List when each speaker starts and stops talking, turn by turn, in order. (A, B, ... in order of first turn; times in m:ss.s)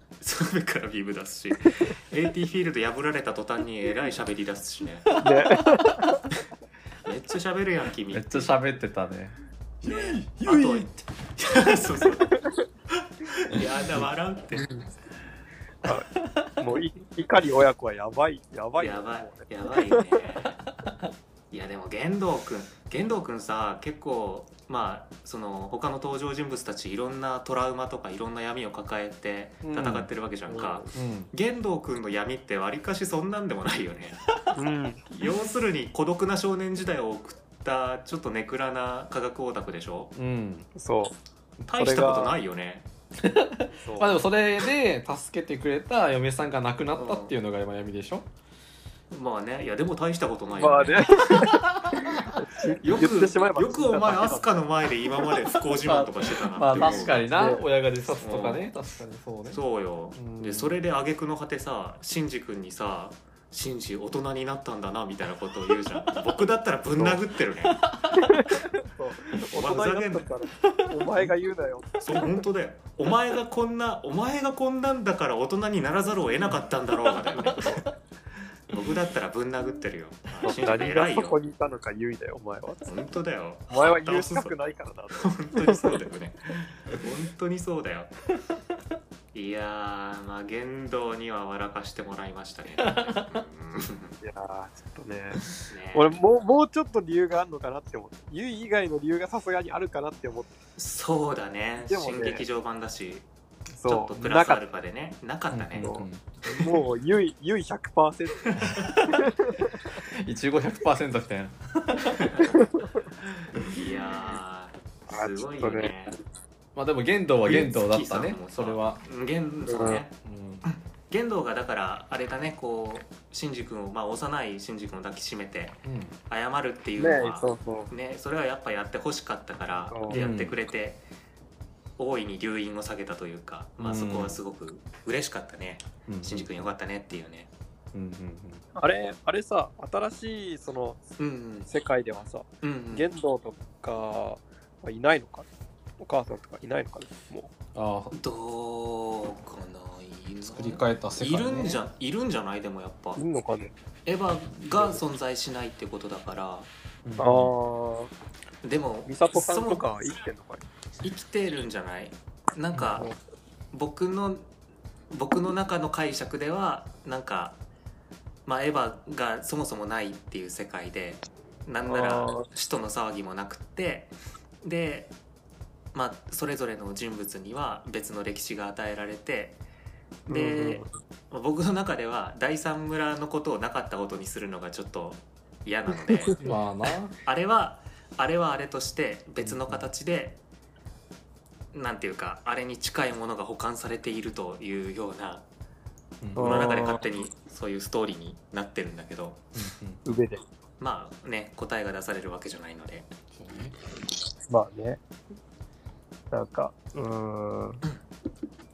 0:00.2-0:05.1 A
0:05.1-0:06.0 B
0:05.2-0:06.2 C
0:07.0-0:08.5 A
0:08.1-0:11.0 B
0:09.8-0:12.4 A
0:13.4-0:14.9 A
0:13.5-0:14.0 B
0:15.8-0:20.0 C
0:15.9-0:16.5 B
0:18.8-0:20.6 A
0:21.5-0:34.2 A
0:29.6-0:30.1 B
0:30.5-0:30.9 C
0:30.9-0:31.3 B
0:34.5-0:35.0 C
0:35.1-0:40.1 A
0:40.2-0:40.7 B
0:40.8-0:41.2 C
0:41.7-0:42.9 A
0:41.8-0:42.4 C
0:43.2-0:48.3 B
0:43.7-0:44.2 C
0:47.0-0:47.3 A
0:49.1-0:51.5 A
0:50.5-0:54.6 C
0:51.3-0:52.3 B
0:52.8-0:57.2 A
0:55.8-0:59.6 B
0:56.8-0:57.6 C
0:58.2-0:58.7 A
0:59.5-1:07.8 A
1:00.2-1:00.8 B
1:07.8-1:08.4 B
1:08.1-1:12.0 C
1:09.5-1:10.3 A
1:10.7-1:11.3 B
1:12.0-1:17.8 A
1:18.7-1:21.4 A
1:20.4-1:22.9 C
1:22.9-1:24.5 A
1:23.7-1:26.0 C
1:25.1-1:28.1 A
1:29.3-1:34.2 A
1:32.8-1:33.4 B
1:34.2-1:40.5 C
1:35.7-1:36.2 A
1:40.8-1:43.3 A
1:41.9-1:42.4 C
1:43.8-1:44.6 C
1:43.9-1:45.9 A
1:45.5-1:46.3 B
1:45.8-1:49.8 C
1:48.5-1:49.0 A
1:48.6-1:48.9 B
1:50.1-1:52.3 B
1:52.1-1:52.8 A
1:53.6-1:56.2 A
1:55.1-1:56.0 C
1:56.8-1:59.0 B
1:57.4-2:00.1 A
1:59.7-2:00.0 C
2:00.2-2:00.6 B
2:00.6-2:11.0 A
2:05.8-2:06.2 B
2:07.0-2:07.9 C
2:09.9-2:10.3 C
2:10.1-2:10.6 B
2:12.0-2:17.5 A
2:13.8-2:14.4 B
2:16.1-2:16.5 B
2:17.9-2:18.6 B
2:18.8-2:21.0 C
2:21.2-2:21.7 A
2:21.7-2:25.5 C
2:22.6-2:23.1 A
2:26.0-2:27.5 C
2:27.8-2:28.1 B
2:28.1-2:33.2 A
2:30.4-2:31.8 B
2:33.2-2:33.8 C
2:34.1-2:36.7 A
2:37.0-2:37.5 B
2:37.2-2:38.1 C
2:38.6-2:39.8 A
2:39.1-2:40.6 C
2:41.0-2:43.1 A
2:42.7-2:43.0 B
2:43.7-2:44.5 A
2:45.1-2:47.6 A
2:48.5-2:55.1 A
2:51.9-2:52.5 C
2:55.9-2:59.6 A
3:00.3-3:06.4 A
3:00.3-3:00.9 C
3:06.1-3:06.6 C
3:06.4-3:07.2 B
3:07.2-3:10.4 A
3:09.4-3:09.8 B
3:11.7-3:15.4 A
3:16.2-3:16.7 B
3:16.4-3:17.0 C
3:16.4-3:19.4 A
3:19.6-3:20.0 B
3:20.0-3:20.4 C
3:20.8-3:23.1 A
3:23.3-3:23.8 B
3:24.5-3:25.0 C
3:26.3-3:27.8 C